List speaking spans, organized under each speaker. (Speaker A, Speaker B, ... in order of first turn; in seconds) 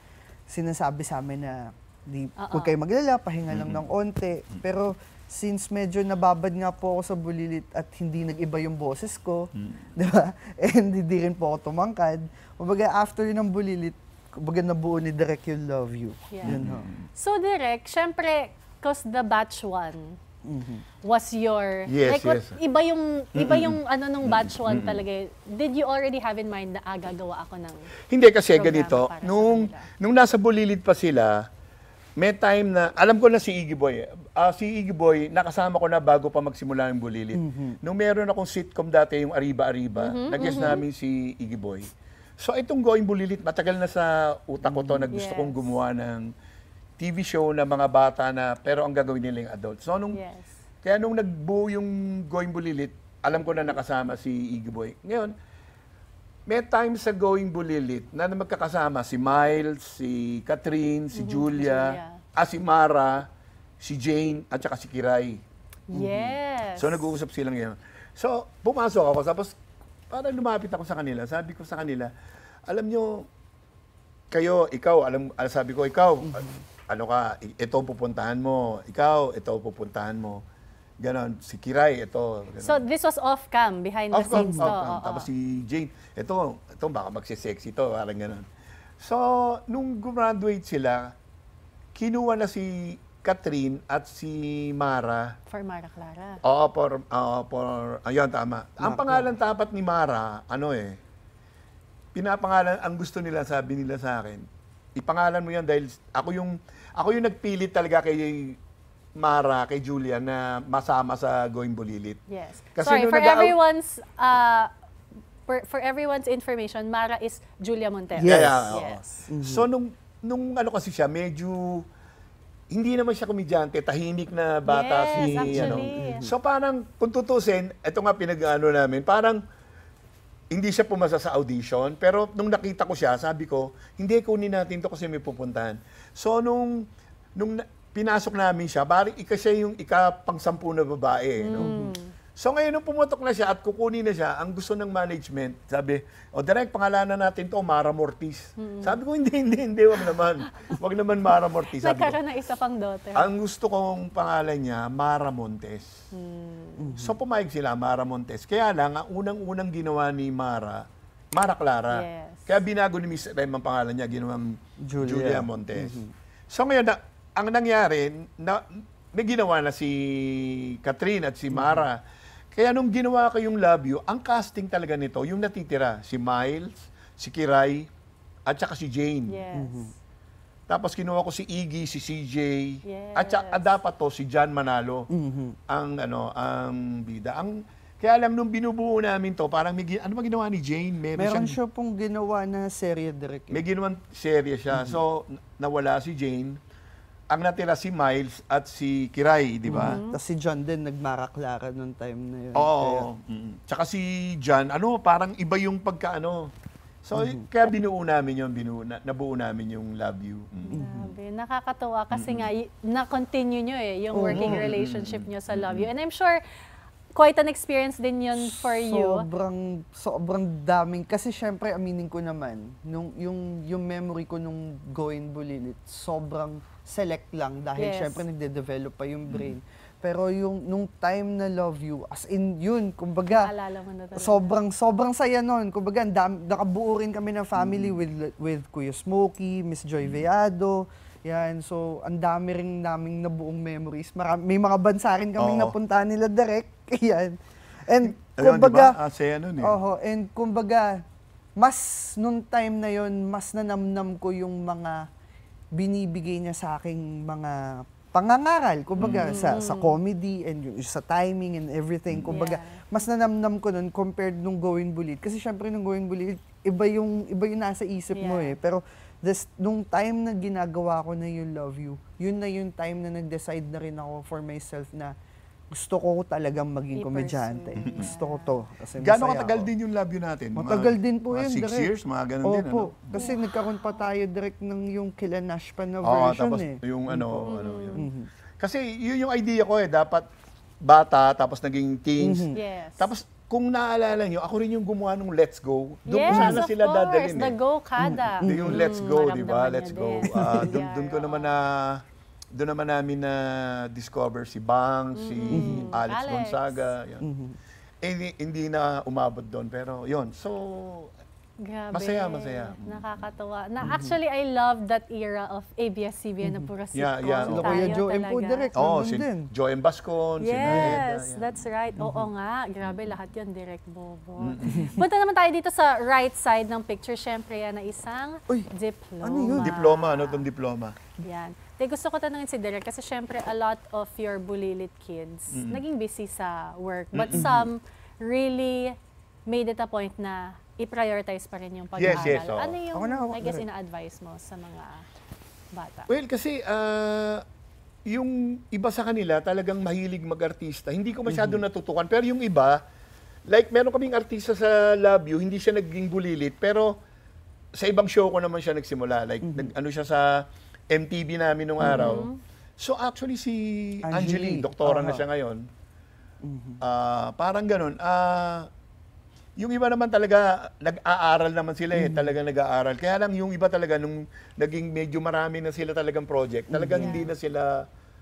Speaker A: 0.5-16.9, 20.4-20.8, 37.4-37.8, 44.6-45.1, 65.9-66.4, 76.2-76.6, 84.3-84.8, 98.8-99.4, 118.2-119.7, 125.2-126.3, 141.6-141.9, 156.8-157.2, 164.8-166.1, 171.5-171.9, 179.5-179.9, 185.1-185.6, 191.2-193.6, 194.7-195.0, 199.7-203.1, 207.2-207.4, 214.1-214.7, 218.4-233.5, 234.2-249.0, 249.6-251.0, 251.6-255.0, 255.8-275.1, 275.7-279.7, 280.6-281.9, 282.4-288.3, 292.2-292.6, 296.3-296.6, 298.0-298.9, 300.3-300.8, 305.5-305.9, 307.2-307.6, 313.8-314.1, 317.5-319.5, 320.6-321.0, 322.0-322.3, 329.2-329.7, 342.0-342.4, 342.9-343.6, 351.3-351.6, 359.4-359.7, 361.8-362.2, 364.1-365.2, 366.4-366.8, 371.9-372.4, 376.7-377.3
Speaker B: 2.4-2.7, 16.3-16.6, 17.2-20.2, 21.0-27.9, 28.5-29.9, 40.0-40.8, 45.1-45.8, 50.1-50.6, 61.1-62.2, 65.9-67.1, 82.6-85.3, 95.5-96.4, 112.3-114.7, 115.5-119.2, 124.7-126.2, 141.4-142.1, 148.6-149.0, 150.1-150.8, 151.7-153.3, 156.1-156.9, 161.9-162.6, 179.3-179.9, 182.8-183.8, 199.7-200.2, 210.7-216.4, 217.2-219.3, 227.8-228.2, 233.3-234.5, 259.1-260.0, 262.3-262.8, 268.1-268.6, 276.9-278.6, 283.2-284.0, 287.4-288.1, 292.5-293.1, 296.1-301.6, 305.2-306.9, 311.6-318.7, 320.4-330.4, 331.2-338.9, 339.5-345.1, 345.7-346.1, 361.9-362.4, 377.0-377.3
Speaker C: 3.5-3.9, 9.6-9.9, 16.4-17.1, 21.9-22.6, 23.4-25.0, 28.1-31.4, 32.2-46.3, 47.0-50.2, 50.8-55.4, 56.5-63.3, 63.8-65.4, 66.8-69.6, 70.1-72.1, 72.7-73.3, 74.3-80.4, 81.0-82.8, 84.1-88.5, 89.0-91.1, 92.0-95.3, 96.5-101.0, 102.2-108.6, 109.2-112.2, 112.8-113.6, 118.2-121.8, 122.7-129.4, 130.5-136.8, 137.4-141.7, 142.4-152.2, 153.2-155.9, 157.0-160.8, 161.4-172.0, 172.5-177.9, 178.5-179.4, 180.7-185.1, 185.7-191.6, 193.5-196.6, 197.3-200.0, 202.6-206.4, 207.1-211.1, 212.1-212.5, 214.3-215.9, 229.3-229.5, 237.6-238.0, 245.4-245.7, 248.0-249.8, 259.0-259.4, 262.1-262.4, 277.8-278.1, 279.0-283.3, 286.0-288.1, 288.6-290.3, 290.8-297.6, 298.4-302.0, 302.5-307.2, 308.0-311.1, 311.9-313.3, 316.9-318.0, 318.8-321.5, 322.9-323.2, 324.4-325.0, 329.5-331.0, 335.5-335.8, 337.1-337.7, 342.0-342.8, 346.1-347.4, 348.1-352.8, 353.5-356.9, 357.8-360.3, 360.9-362.3, 362.8-365.6, 366.8-368.7, 369.6-377.7